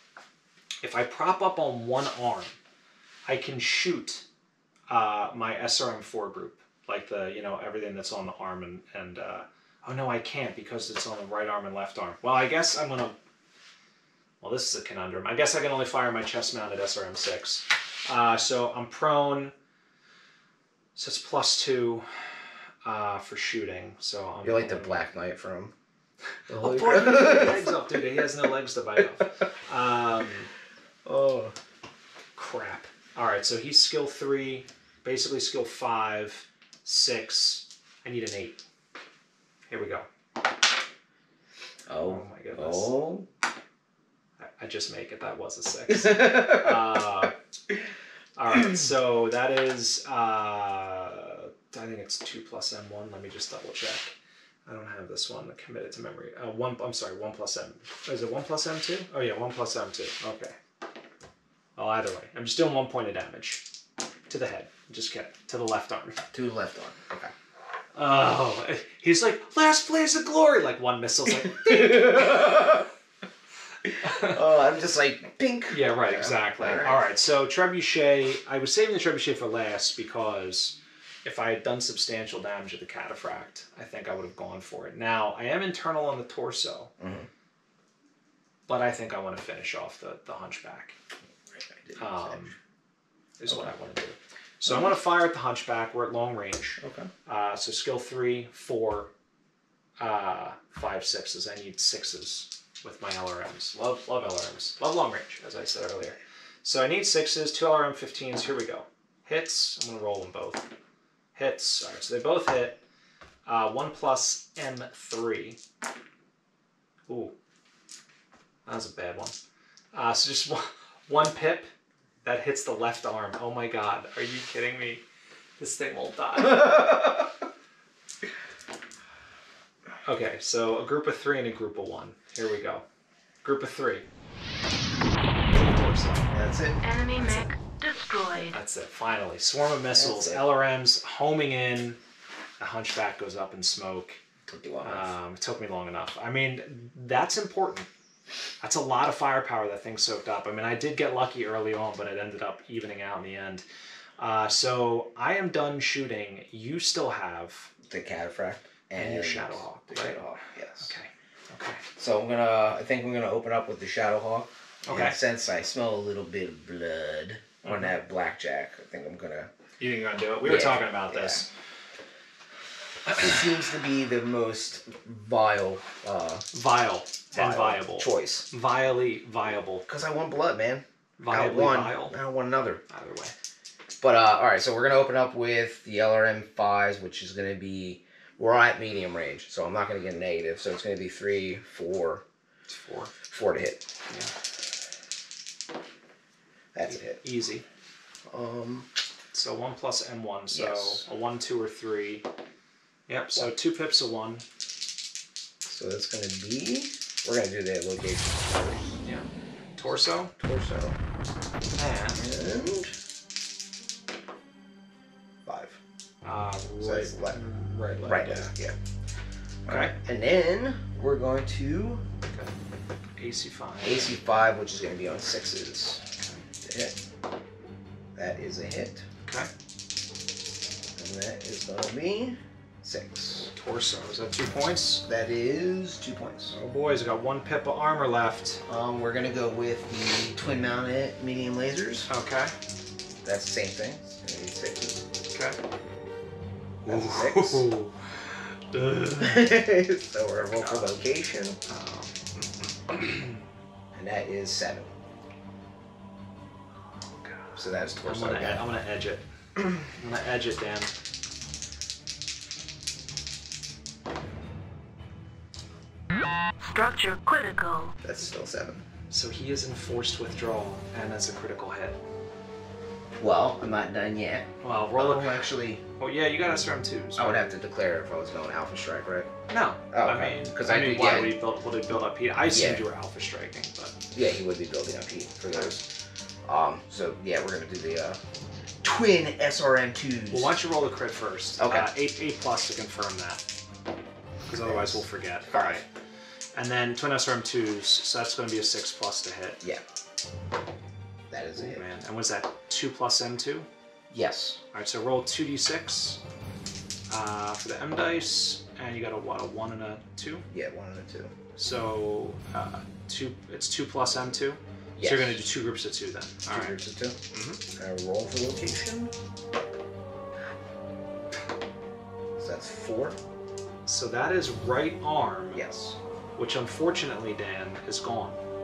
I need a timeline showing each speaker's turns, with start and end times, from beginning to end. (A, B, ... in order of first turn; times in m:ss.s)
0:00.8-0:02.6 A
0:03.2-0:04.2 A
0:04.9-0:13.2 A
0:14.4-0:19.5 A
0:21.0-0:25.1 A
0:24.4-0:25.7 B
0:26.5-0:27.7 B
0:26.6-0:30.5 A
0:31.0-0:31.5 B
0:32.4-0:38.6 A
0:39.7-0:40.1 A
0:41.9-0:43.3 B
0:42.0-0:42.9 A
0:44.4-0:47.3 A
0:45.9-0:46.8 B
0:48.4-0:54.1 A
0:54.6-1:00.6 A
1:01.8-1:03.6 A
1:04.3-1:06.2 A
1:06.3-1:07.3 B
1:07.9-1:12.7 A
1:11.3-1:12.9 B
1:13.9-1:17.0 B
1:14.0-1:14.4 A
1:15.7-1:26.9 A
1:27.0-1:27.3 B
1:28.7-1:31.0 A
1:31.5-1:32.6 B
1:32.0-1:32.5 A
1:33.4-1:39.1 A
1:36.8-1:37.1 B
1:40.0-1:50.6 A
1:51.3-1:52.8 A
1:53.4-1:55.6 A
1:57.1-1:57.3 A
1:58.6-1:59.4 A
1:59.9-2:01.7 A
2:02.2-2:05.0 A
2:05.6-2:06.8 A
2:06.4-2:07.2 B
2:10.0-2:12.8 A
2:13.4-2:14.0 A
2:15.5-2:16.3 A
2:16.3-2:16.8 B
2:16.8-2:18.6 C
2:18.5-2:22.0 A
2:19.9-2:20.4 B
2:22.6-2:24.2 A
2:24.5-2:25.1 B
2:24.8-2:27.9 A
2:28.6-2:33.6 A
2:34.2-2:37.7 A
2:37.9-2:40.9 B
2:38.9-2:41.8 A
2:42.0-2:49.5 B
2:44.8-2:45.2 A
2:47.6-2:47.9 A
2:49.8-2:51.5 A
2:50.4-2:51.4 B
2:53.1-2:56.4 B
2:56.5-2:59.8 A
2:57.3-2:58.4 B
2:59.9-3:02.8 B
3:01.2-3:02.1 A
3:02.9-3:03.3 A
3:04.0-3:12.2 B
3:12.7-3:13.1 A
3:13.3-3:13.8 B
3:16.7-3:17.2 B
3:16.8-3:17.6 A
3:18.3-3:18.9 B
3:19.3-3:22.2 A
3:20.5-3:21.0 B
3:23.1-3:24.4 A
3:25.6-3:29.0 B
3:29.0-3:30.3 A
3:30.3-3:31.0 B
3:31.7-3:32.3 A
3:32.2-3:32.9 B
3:35.4-3:35.8 B
3:36.2-3:38.5 A
3:36.8-3:37.4 B
3:38.0-3:38.7 B
3:39.6-3:42.0 B
3:39.7-3:39.9 A
3:43.2-3:44.1 A
3:43.8-3:46.0 B
3:46.6-3:46.9 B
3:48.2-3:49.0 B
3:51.0-3:53.5 B
3:53.5-3:55.0 A
3:55.0-3:56.5 B
3:56.5-3:58.6 A
3:58.6-4:02.1 B
4:02.1-4:02.5 A
4:03.2-4:05.0 B
4:05.3-4:05.6 A
4:06.8-4:07.7 B
4:06.8-4:08.0 A
4:08.7-4:09.4 A
4:09.2-4:11.6 B
4:10.6-4:11.0 A
4:11.6-4:13.4 A
4:13.9-4:14.9 B
4:17.2-4:19.2 A
4:17.6-4:18.6 B
4:19.8-4:20.9 A
4:26.6-4:27.9 C
4:28.0-4:28.8 B
4:29.1-4:32.0 A
4:33.2-4:35.8 B
4:34.6-4:37.4 A
4:37.2-4:39.3 B
4:39.5-4:44.0 A
4:39.9-4:41.3 B
4:42.5-4:42.8 B
4:44.1-4:45.8 B
4:45.5-4:45.8 A
4:46.4-4:48.2 B
4:48.8-4:50.6 B
4:50.3-4:53.4 A
4:51.6-4:51.9 B
4:54.5-4:55.8 A
4:54.6-4:55.8 B
4:56.5-4:59.6 A
5:01.3-5:01.8 B
5:01.5-5:03.7 A
5:04.1-5:04.6 B
5:04.7-5:06.2 A
5:07.1-5:10.5 A
5:10.5-5:11.3 B
5:11.6-5:16.8 A
5:15.0-5:15.4 B
5:16.4-5:17.2 B
5:17.3-5:17.6 A
5:17.7-5:19.1 B
5:22.4-5:23.2 B
5:23.8-5:25.6 A
5:25.5-5:26.0 B
5:26.4-5:28.4 A